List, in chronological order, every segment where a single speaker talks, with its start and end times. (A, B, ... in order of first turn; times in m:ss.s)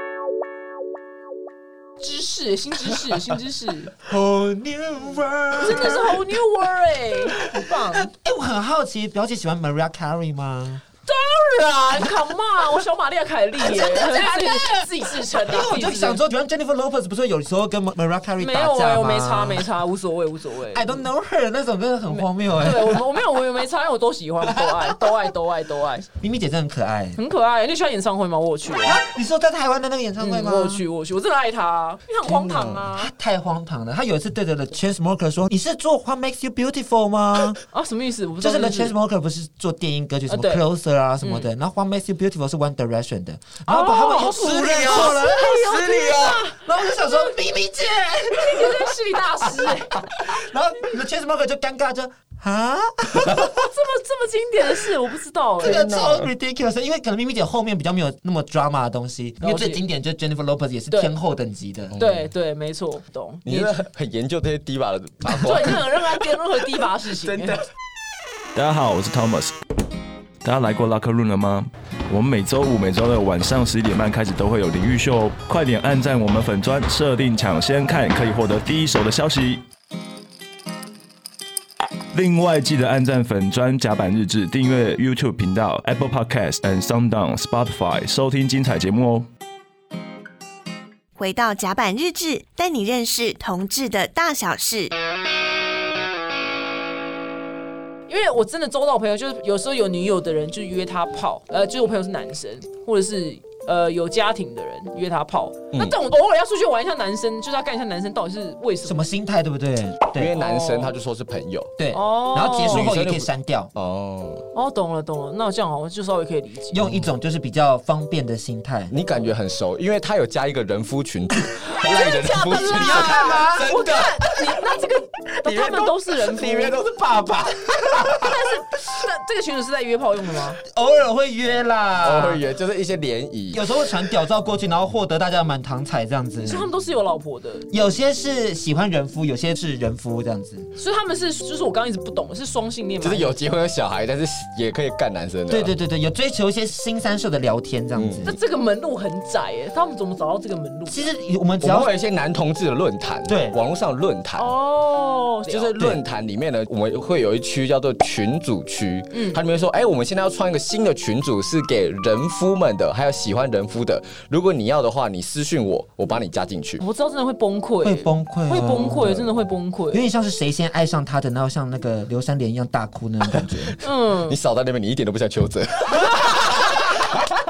0:02.0-0:03.9 A
0:04.0-0:06.2 B
0:05.6-0:08.1 A
0:07.5-0:10.8 B
0:11.0-0:16.2 A
0:13.6-0:19.7 B
0:18.4-0:21.0 A
0:20.7-0:23.0 B
0:22.1-0:26.1 A
0:24.5-0:25.0 B
0:26.2-0:27.2 B
0:27.2-0:29.0 A
0:28.8-0:30.8 B
0:30.2-0:33.1 A
0:32.3-0:37.6 B
0:37.7-0:38.9 A
0:38.4-0:45.6 B
0:40.3-0:40.6 A
0:41.2-0:41.5 A
0:43.7-0:47.3 A
0:44.2-0:46.4 C
0:46.6-0:48.9 B
0:48.3-0:50.0 A
0:49.6-0:53.6 B
0:53.4-0:55.8 A
0:55.6-1:02.0 B
0:55.6-0:56.3 C
0:59.4-0:59.8 A
1:01.9-1:02.3 C
1:02.0-1:03.8 A
1:03.4-1:06.4 C
1:05.2-1:07.6 A
1:07.2-1:07.6 C
1:08.5-1:09.6 D
1:10.4-1:19.6 D
1:22.1-1:29.3 D
1:31.2-1:34.9 E
1:38.1-1:49.0 A
1:48.8-1:50.3 B
1:50.1-1:51.7 C
1:50.3-1:50.9 A
1:51.8-1:53.7 B
1:51.9-1:52.9 A
1:52.7-1:54.5 C
1:54.5-1:57.0 A
1:56.7-1:58.9 B
1:58.9-2:04.8 C
2:01.6-2:06.7 A
2:02.5-2:03.7 B
2:05.4-2:08.1 C
2:07.8-2:08.3 B
2:08.1-2:10.6 A
2:10.6-2:12.4 B
2:12.0-2:13.7 C
2:13.5-2:16.7 B
2:16.4-2:17.7 A
2:17.7-2:20.7 B
2:20.8-2:23.3 A
2:23.0-2:25.7 C
2:25.5-2:28.3 B
2:27.9-2:28.3 C
2:28.2-2:31.1 A
2:30.9-2:31.9 B
2:31.6-2:34.5 C
2:33.3-2:33.6 B
2:34.4-2:35.7 A
2:35.5-2:46.8 C
2:39.1-2:39.4 A
2:46.8-2:50.0 A
2:47.8-2:49.3 B
2:49.9-2:53.8 B
2:53.4-2:57.2 C
2:53.8-2:54.4 A
2:56.1-2:56.7 A